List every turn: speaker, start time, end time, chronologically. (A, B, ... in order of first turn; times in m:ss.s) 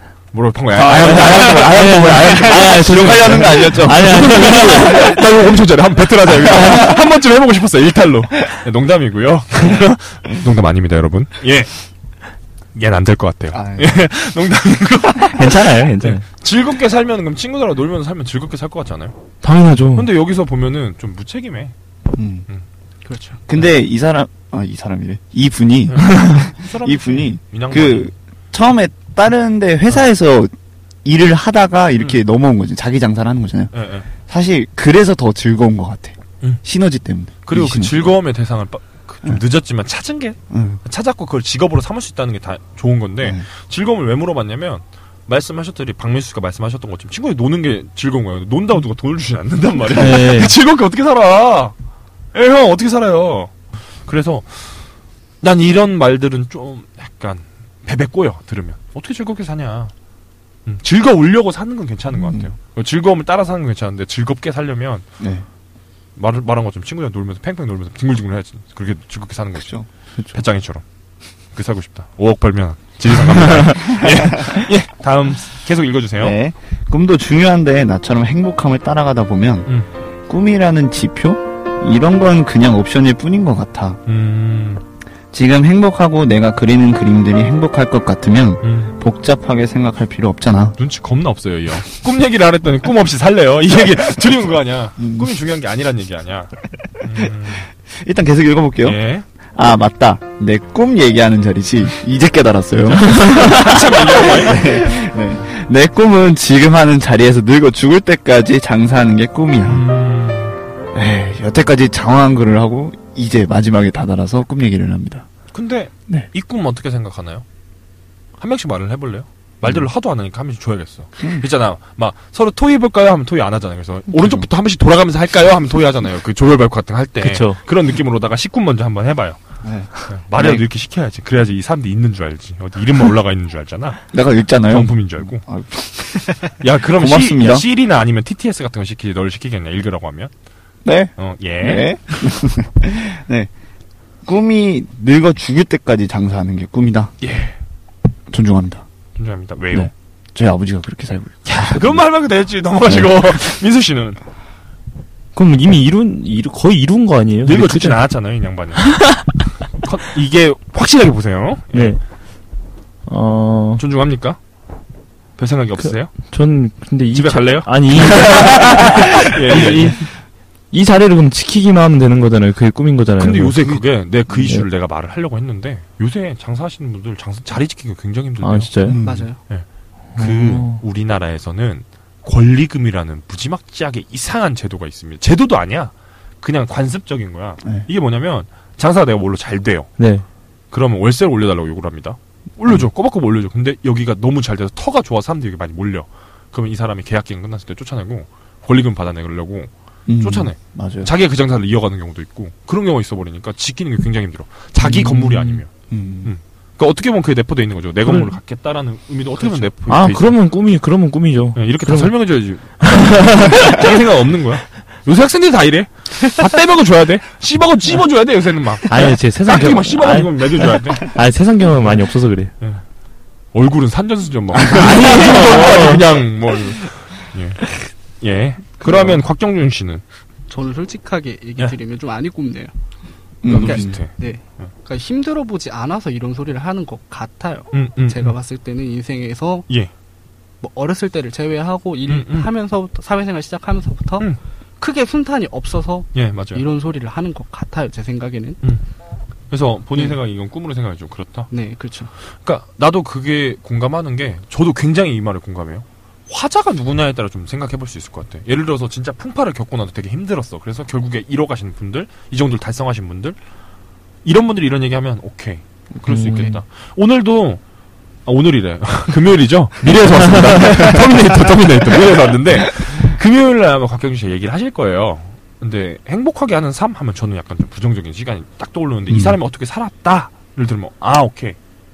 0:00.3-0:11.7 A
0:00.8-0:05.2 B
0:00.8-0:05.2 C
0:06.5-0:07.0 B
0:12.8-0:19.1 A
0:13.5-0:13.9 B
0:15.2-0:16.2 C
0:19.4-0:20.1 C
0:19.9-0:21.7 A
0:22.1-0:22.5 B
0:23.0-0:23.4 D
0:23.5-0:30.5 B
0:25.9-0:28.1 A
0:31.0-0:33.7 B
0:33.7-0:34.1 A
0:34.3-0:38.1 B
0:37.5-0:51.7 A
0:40.5-0:40.8 B
0:49.9-0:50.5 C
0:52.3-0:53.5 A
0:54.1-0:54.7 A
0:55.4-0:59.9 A
1:00.7-1:05.0 A
1:02.2-1:02.5 B
1:05.2-1:05.5 B
1:06.2-1:09.8 A
1:09.6-1:09.9 B
1:10.3-1:10.8 A
1:11.5-1:16.4 A
1:13.8-1:14.7 B
1:16.2-1:19.7 B
1:20.3-1:24.0 B
1:24.1-1:24.8 A
1:25.3-1:30.8 B
1:28.6-1:28.9 A
1:30.8-1:37.7 A
1:35.0-1:35.3 B
1:38.0-1:39.0 B
1:38.8-1:39.2 A
1:39.5-1:49.8 B
1:42.9-1:44.9 A
1:49.7-1:50.6 A
1:50.9-1:55.3 B
1:55.5-1:57.4 A
1:58.4-2:09.4 A
2:01.2-2:01.5 B
2:04.1-2:04.5 B
2:07.2-2:07.6 C
2:09.6-2:10.6 B
2:10.1-2:14.1 A
2:14.1-2:16.4 B
2:14.7-2:15.4 A
2:16.5-2:20.3 A
2:17.0-2:17.7 B
2:20.8-2:23.5 B
2:21.2-2:22.3 A
2:24.2-2:27.1 B
2:27.2-2:27.6 A
2:28.3-2:28.8 B
2:29.2-2:29.9 A
2:29.7-2:32.0 B
2:31.5-2:34.2 A
2:32.8-2:33.2 B
2:35.3-2:38.0 C
2:37.4-2:39.2 A
2:38.9-2:39.2 C
2:39.8-2:42.0 A
2:41.7-2:42.0 C
2:43.1-2:43.8 C
2:43.8-2:44.4 A
2:45.4-2:46.3 A
2:45.9-2:50.1 C
2:47.1-2:50.0 A
2:50.7-2:53.8 C
2:53.2-2:58.9 A
2:54.3-2:54.6 C
2:58.4-2:59.0 C
2:58.8-2:59.3 B
2:59.0-2:59.4 D
3:00.2-3:00.8 C
3:00.2-3:09.9 A
3:10.0-3:10.2 C
3:10.7-3:25.7 A
3:20.1-3:21.1 B
3:24.8-3:25.6 C
3:25.9-3:26.3 B
3:26.2-3:30.4 A
3:28.0-3:28.3 C
3:29.9-3:32.1 C
3:31.6-3:41.1 A
3:32.8-3:33.8 C
3:38.9-3:42.5 C
3:43.5-3:50.0 A
3:44.6-3:45.5 B
3:44.7-3:46.0 C
3:48.8-3:49.2 B
3:50.5-3:52.7 D
3:53.4-3:54.0 B
3:53.5-3:54.7 A
3:53.5-3:59.7 D
3:57.7-3:58.4 A
4:00.6-4:04.3 D
4:02.1-4:02.5 A
4:04.8-4:08.6 D
4:06.1-4:06.6 A
4:09.5-4:11.5 A
4:11.5-4:12.1 D
4:12.4-4:23.4 A
4:24.2-4:27.6 A
4:26.1-4:26.5 C
4:28.3-4:41.6 A
4:30.2-4:31.4 C
4:39.1-4:39.4 B